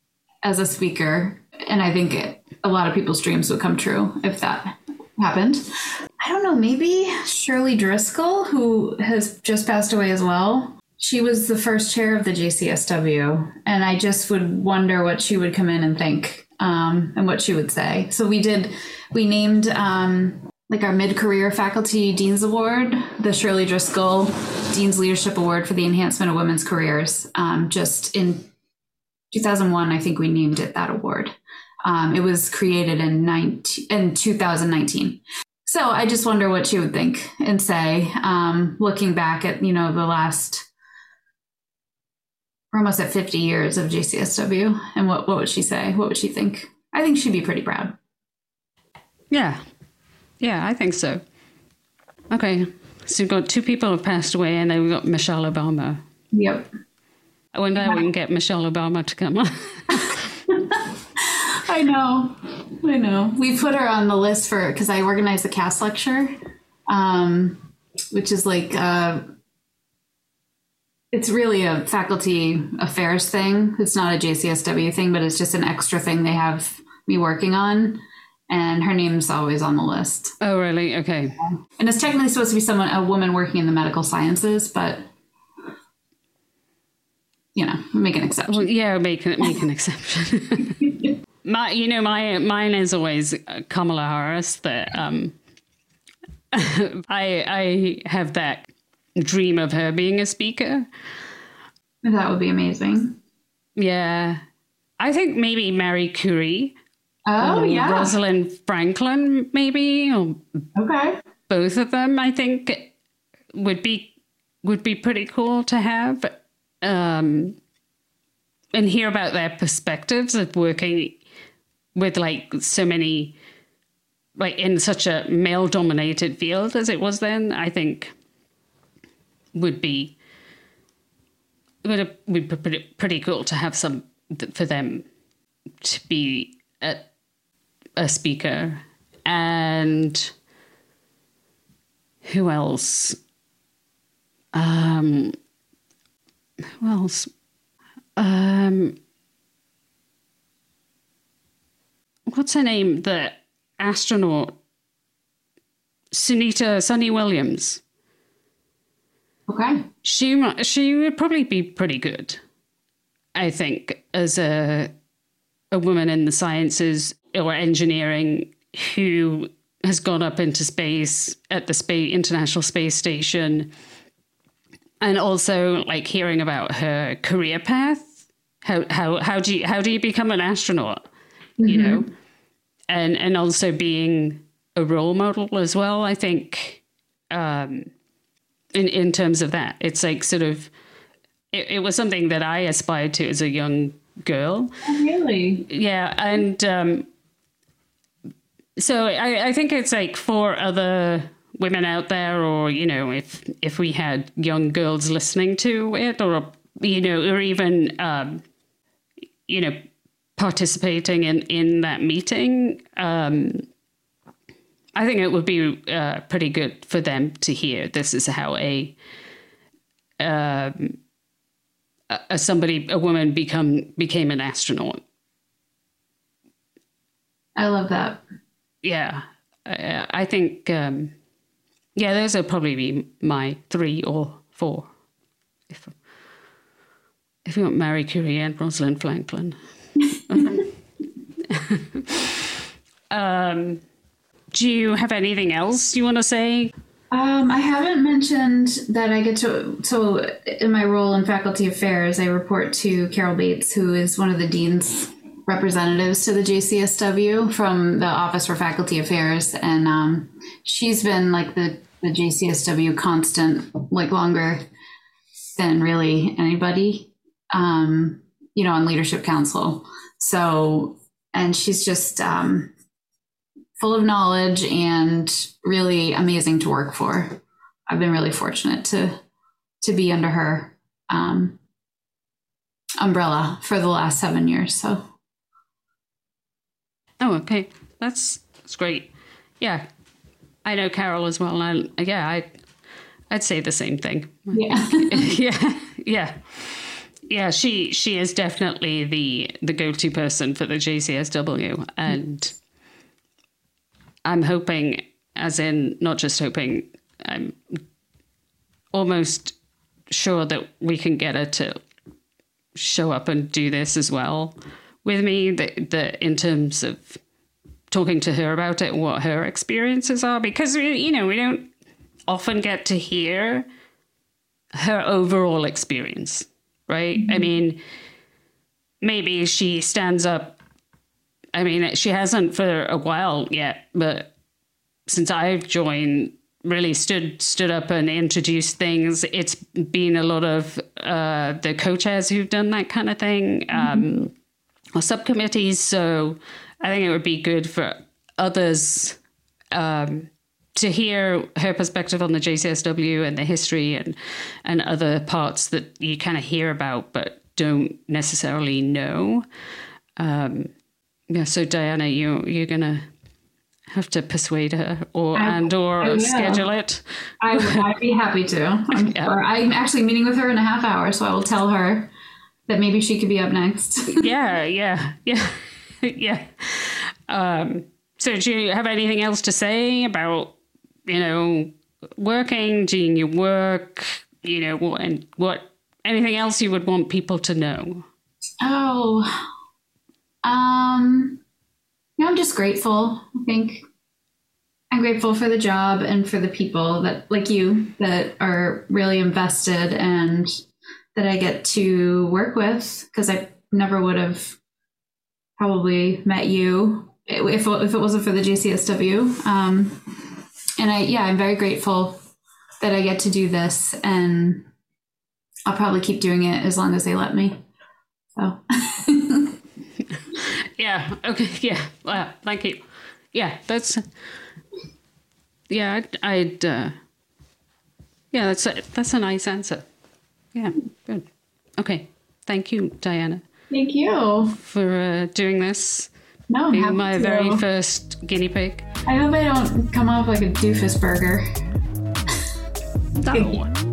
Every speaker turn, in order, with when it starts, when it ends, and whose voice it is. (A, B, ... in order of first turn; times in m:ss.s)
0:00.4-0:05.7 A
0:06.2-0:28.5 A
0:29.3-0:40.7 A
0:42.7-0:47.9 A
0:49.3-0:49.6 B
0:50.4-0:51.2 B
0:52.3-0:56.0 B
0:56.3-0:56.7 A
0:57.5-1:00.2 B
0:59.9-1:06.3 A
1:06.9-1:09.2 A
1:11.1-1:20.3 A
1:20.4-1:21.4 B
1:21.6-1:25.0 A
1:27.6-1:28.7 A
1:28.5-1:30.8 B
1:31.4-1:35.4 B
1:36.5-1:40.9 B
1:42.0-1:43.2 A
1:43.8-1:44.4 B
1:45.0-1:46.8 B
1:47.3-1:48.2 A
1:47.4-1:50.6 B
1:50.8-1:51.2 A
1:51.5-1:52.9 B
1:53.5-1:57.6 B
1:58.7-2:01.2 B
2:02.0-2:03.4 B
2:04.4-2:08.1 B
2:09.6-2:10.2 B
2:11.8-2:15.1 B
2:15.8-2:17.1 B
2:18.0-2:20.3 B
2:22.2-2:23.2 B
2:24.5-2:25.4 B
2:26.8-2:27.3 B
2:28.2-2:29.0 B
2:32.3-2:34.6 B
2:36.1-2:37.8 B
2:39.5-2:39.8 A
2:40.0-2:42.4 B
2:43.4-2:44.9 B
2:45.7-2:53.7 B
2:55.0-3:01.0 B
3:01.6-3:02.1 A
3:01.7-3:02.1 B
3:02.9-3:07.9 B
3:08.7-3:10.7 B
3:11.5-3:14.7 B
3:14.8-3:15.6 A
3:15.7-3:17.1 B
3:18.8-3:28.4 B
3:29.5-3:29.8 B
3:30.4-3:33.6 B
3:35.0-3:39.0 B
3:40.2-3:41.0 B
3:42.1-3:45.0 B
3:47.6-3:48.2 A
3:48.8-3:51.1 B
3:52.0-3:54.9 B
3:55.7-3:56.0 B
3:57.4-3:59.6 B
4:00.1-4:00.6 A
4:00.3-4:00.7 B
4:01.5-4:02.4 B
4:03.1-4:03.8 B
4:04.5-4:06.7 B
4:07.1-4:24.6 A
4:25.5-4:32.7 A
4:33.8-4:37.4 A
4:37.9-4:39.2 A
4:39.8-4:41.6 A
4:43.0-4:45.0 A
4:47.2-4:49.8 B
4:50.6-4:52.6 B
4:53.3-5:02.6 B
4:54.5-4:55.3 A
5:04.2-5:07.8 B
5:08.9-5:09.6 B
5:10.1-5:11.8 B
5:12.8-5:17.2 B
5:17.9-5:21.7 B
5:22.3-5:23.7 B
5:24.8-5:27.8 B
5:27.2-5:27.5 A
5:29.0-5:30.6 B
5:31.5-5:34.3 B
5:35.1-5:44.3 B
5:43.7-5:44.0 A
5:45.0-5:49.2 B
5:49.7-5:59.5 B
6:00.2-6:00.7 B
6:01.3-6:03.0 B
6:03.9-6:07.8 B
6:05.4-6:06.7 A
6:07.4-6:12.1 A
6:08.9-6:09.4 B
6:12.7-6:14.3 A
6:14.1-6:20.6 B
6:21.1-6:28.1 B
6:28.6-6:29.3 A
6:30.4-6:31.4 A
6:32.2-6:33.8 A
6:34.9-6:40.5 A
6:41.2-6:44.6 A
6:45.6-6:52.2 A
6:52.8-6:54.7 A
6:55.7-6:57.6 A
6:58.4-6:59.6 A
7:00.3-7:04.0 B
7:05.7-7:07.0 B
7:08.3-7:09.9 B
7:10.5-7:11.3 B
7:11.8-7:13.4 B
7:13.7-7:14.6 A
7:14.6-7:16.1 B
7:16.5-7:17.6 A
7:16.7-7:18.9 B
7:19.1-7:21.4 A
7:23.2-7:23.7 B
7:23.3-7:23.6 A